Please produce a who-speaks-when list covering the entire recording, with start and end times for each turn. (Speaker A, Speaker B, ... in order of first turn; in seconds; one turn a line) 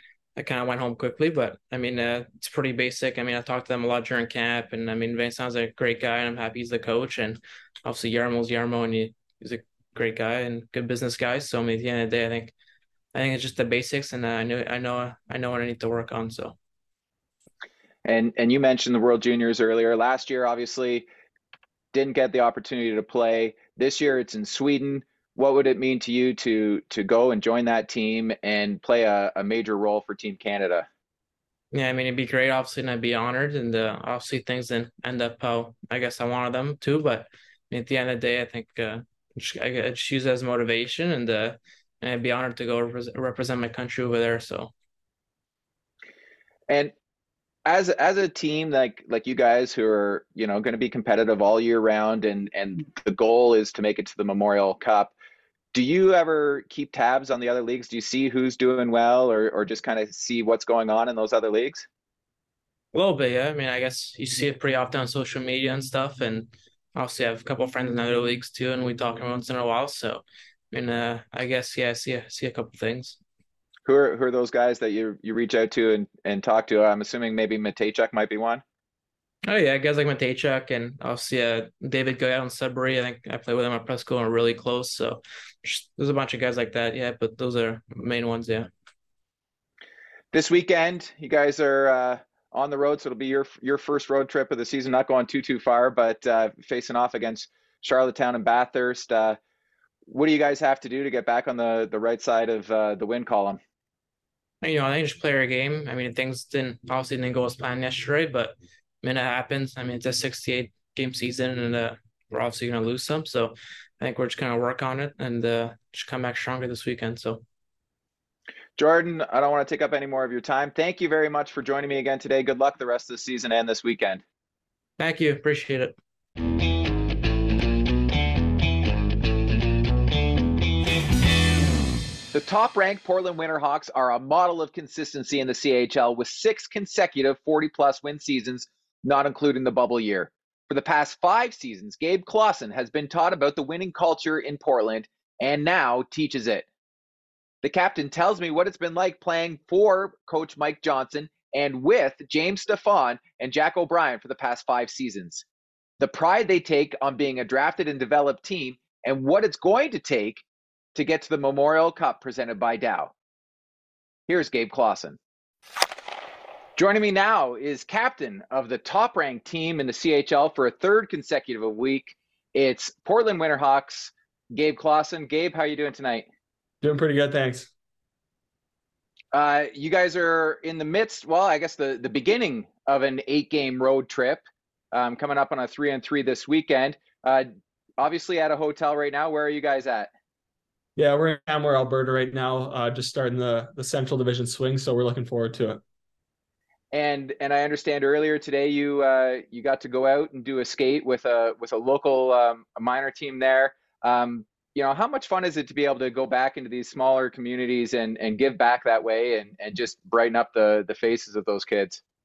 Speaker A: 0.3-12.5
Speaker A: 13.1-16.6
Speaker B: 18.1-21.1
Speaker B: 21.9-30.9
Speaker A: 31.7-44.7
Speaker B: 47.6-55.1
Speaker B: 55.7-61.9
Speaker A: 62.9-73.2
Speaker B: 73.8-78.6
Speaker A: 79.5-88.7
Speaker B: 90.3-99.4
Speaker B: 100.1-103.6
Speaker A: 104.6-117.4
Speaker B: 118.8-124.2
Speaker A: 125.0-125.9
Speaker B: 132.3-146.7
Speaker B: 147.6-155.4
Speaker B: 156.0-160.4
Speaker B: 160.9-163.1
Speaker B: 164.3-165.2
Speaker B: 166.8-176.2
Speaker C: 176.8-177.7
Speaker B: 179.3-187.5
Speaker B: 188.0-190.1
Speaker C: 190.9-195.8
Speaker B: 196.9-212.0